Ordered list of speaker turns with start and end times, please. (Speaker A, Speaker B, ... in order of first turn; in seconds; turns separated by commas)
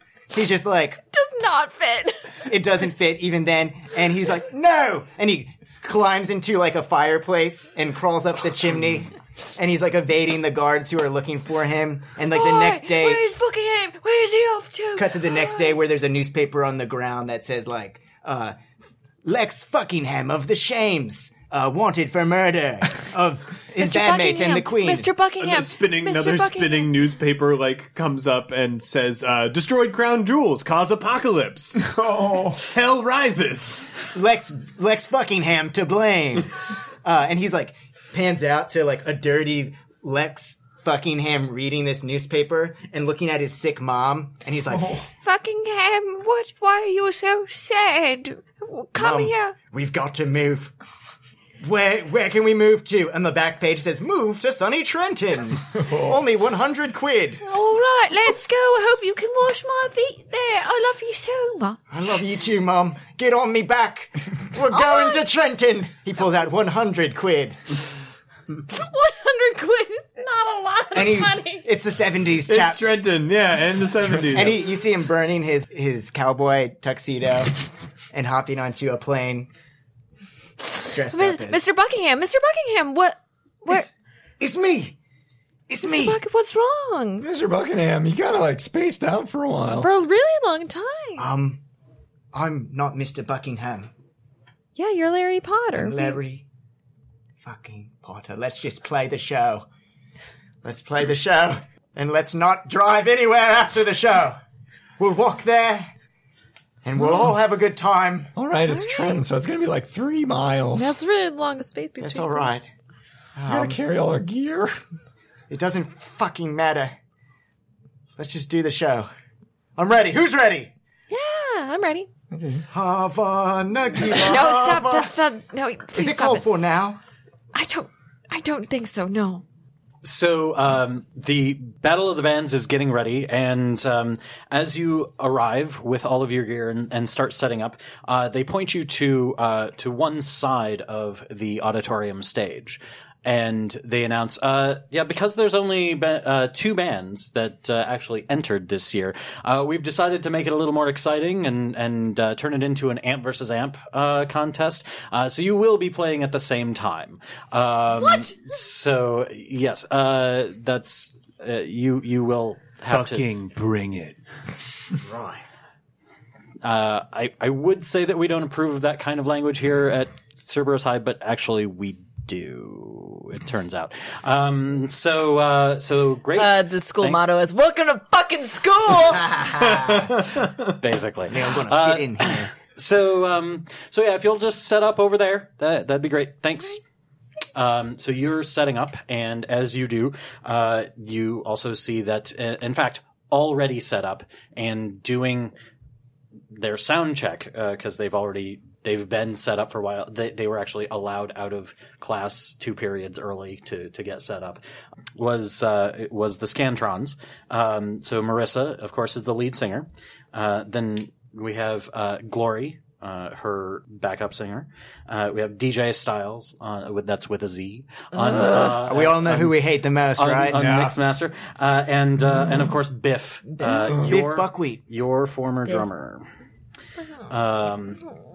Speaker A: 0.3-1.0, Speaker B: 1.1-2.4, Speaker A: 2.5-13.2, Speaker B: 12.3-15.7, Speaker A: 14.9-18.6, Speaker A: 19.2-25.1, Speaker B: 23.8-26.9, Speaker C: 25.4-31.9, Speaker D: 31.8-32.6, Speaker C: 32.5-33.9, Speaker A: 34.1-45.0, Speaker D: 44.7-45.1, Speaker B: 45.2-49.6, Speaker A: 49.0-50.7, Speaker A: 51.6-57.4, Speaker D: 55.7-56.2, Speaker B: 57.5-61.8, Speaker A: 61.9-67.6, Speaker B: 64.7-65.2, Speaker B: 68.7-71.7, Speaker A: 70.9-72.8, Speaker C: 72.5-74.6, Speaker A: 74.3-79.5, Speaker A: 80.8-81.6, Speaker B: 81.1-83.9, Speaker A: 84.4-85.0, Speaker A: 85.7-86.2, Speaker B: 85.8-87.3, Speaker D: 87.2-89.9, Speaker B: 89.8-91.3, Speaker A: 91.2-91.6, Speaker A: 92.3-93.9, Speaker B: 94.8-96.1, Speaker A: 95.8-96.5, Speaker A: 97.4-99.7, Speaker A: 100.6-104.4, Speaker A: 105.0-105.9, Speaker A: 106.8-108.3, Speaker D: 108.3-111.0, Speaker B: 108.6-109.2, Speaker B: 110.7-112.5, Speaker A: 112.0-112.7, Speaker A: 113.3-113.8, Speaker D: 113.5-114.7, Speaker A: 115.5-117.0, Speaker A: 118.2-119.1, Speaker A: 119.8-120.7, Speaker B: 121.1-122.1, Speaker A: 122.7-125.1, Speaker B: 124.2-126.4, Speaker A: 125.9-127.0, Speaker B: 127.5-129.4, Speaker E: 130.0-163.2, Speaker B: 158.0-158.3, Speaker C: 162.9-164.2, Speaker A: 165.0-165.4, Speaker E: 166.6-177.2, Speaker B: 176.4-179.3, Speaker A: 179.1-180.1, Speaker E: 179.8-186.8, Speaker C: 180.2-180.7, Speaker A: 181.3-182.5, Speaker E: 187.6-195.5, Speaker E: 196.5-204.6, Speaker E: 205.2-219.6, Speaker B: 218.2-218.6, Speaker A: 218.6-220.6, Speaker E: 220.2-226.3, Speaker D: 220.5-220.9, Speaker B: 223.6-224.0, Speaker A: 224.0-224.8, Speaker E: 227.3-228.0